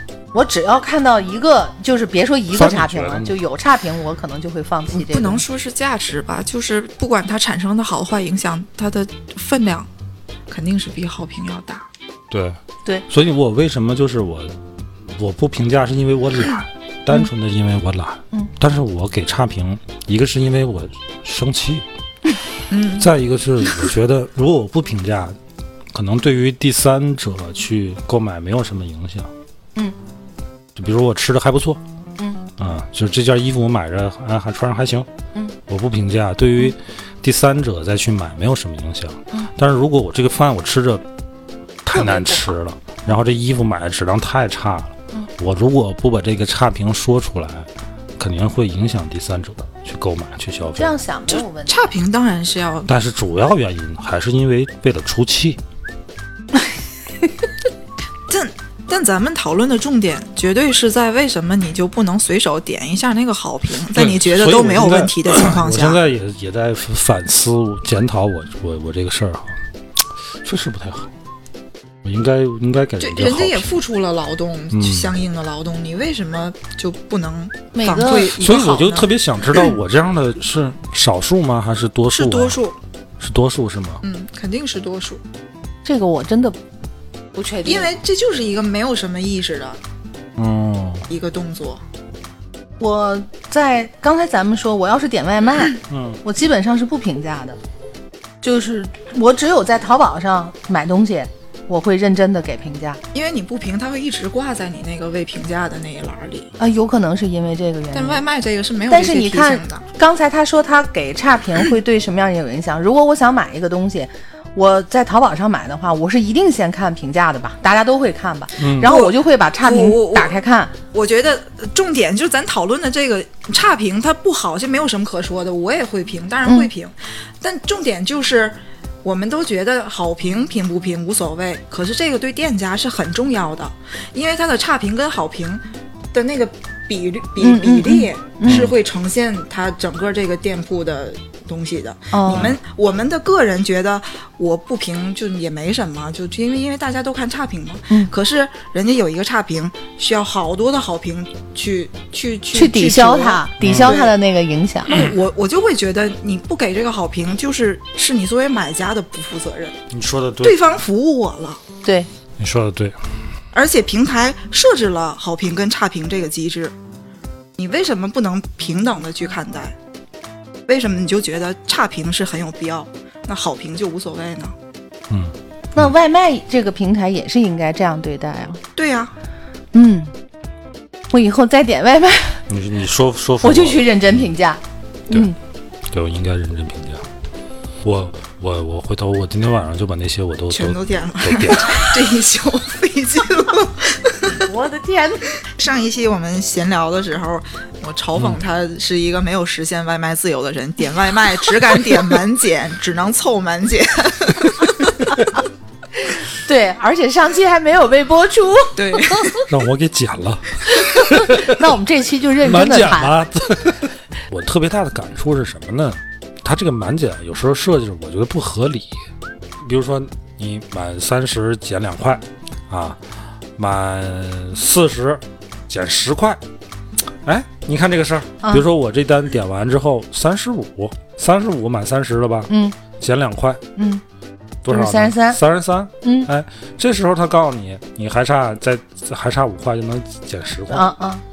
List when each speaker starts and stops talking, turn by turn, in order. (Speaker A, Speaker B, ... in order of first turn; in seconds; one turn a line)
Speaker A: 0.3-5.4
Speaker B: 2.5-3.4
Speaker C: 4.9-9.9
Speaker C: 10.5-11.8
Speaker B: 12.3-21.9
Speaker C: 22.7-23.1
Speaker B: 23.0-25.4
Speaker B: 25.9-29.3
Speaker B: 30.8-31.8
Speaker B: 32.6-35.1
Speaker B: 35.7-41.0
Speaker B: 41.8-51.0
Speaker A: 41.9-42.5
Speaker A: 50.8-51.9
Speaker C: 51.3-52.9
Speaker B: 52.9-55.6
Speaker C: 58.3-66.0
Speaker B: 63.9-69.6
Speaker B: 70.4-71.1
Speaker B: 72.0-73.8
Speaker C: 73.0-79.1
Speaker B: 74.7-75.1
Speaker A: 77.7-78.3
Speaker B: 78.3-82.6
Speaker C: 82.1-82.8
Speaker B: 83.2-84.0
Speaker C: 84.0-85.2
Speaker A: 85.8-86.6
Speaker A: 87.3-87.9
Speaker C: 87.7-89.8
Speaker B: 90.4-91.1
Speaker C: 91.1-91.8
Speaker A: 92.8-97.6
Speaker B: 95.9-96.2
Speaker A: 98.4-103.0
Speaker C: 103.1-106.5
Speaker A: 106.6-108.2
Speaker C: 107.9-109.8
Speaker A: 108.9-120.7
Speaker B: 118.6-119.0
Speaker C: 118.8-120.4
Speaker C: 120.9-154.2
Speaker A: 137.4-138.7
Speaker B: 138.4-138.8
Speaker A: 142.1-142.5
Speaker B: 142.3-142.6
Speaker A: 152.5-155.0
Speaker B: 153.6-153.9
Speaker C: 154.9-159.8
Speaker B: 159.9-160.6
Speaker C: 160.4-161.6
Speaker B: 162.4-163.0
Speaker C: 163.5-166.7
Speaker C: 167.6-169.8
Speaker C: 170.7-174.5
Speaker B: 175.1-175.9
Speaker A: 175.8-178.6
Speaker C: 178.8-179.1
Speaker A: 179.7-180.1
Speaker A: 181.1-182.4
Speaker B: 182.5-184.2
Speaker A: 183.4-185.4
Speaker B: 185.9-187.1
Speaker B: 187.8-191.8
Speaker C: 190.5-194.4
Speaker A: 194.4-195.3
Speaker C: 195.5-205.0
Speaker B: 198.2-198.4
Speaker A: 206.0-209.4
Speaker C: 208.8-209.4
Speaker B: 209.5-211.6
Speaker A: 210.8-213.2
Speaker B: 212.4-219.0
Speaker B: 219.6-223.0
Speaker B: 223.6-226.4
Speaker B: 227.2-233.6
Speaker A: 232.5-232.8
Speaker A: 233.8-234.0
Speaker B: 234.6-240.9
Speaker A: 234.7-235.4
Speaker A: 236.0-236.3
Speaker A: 240.7-241.2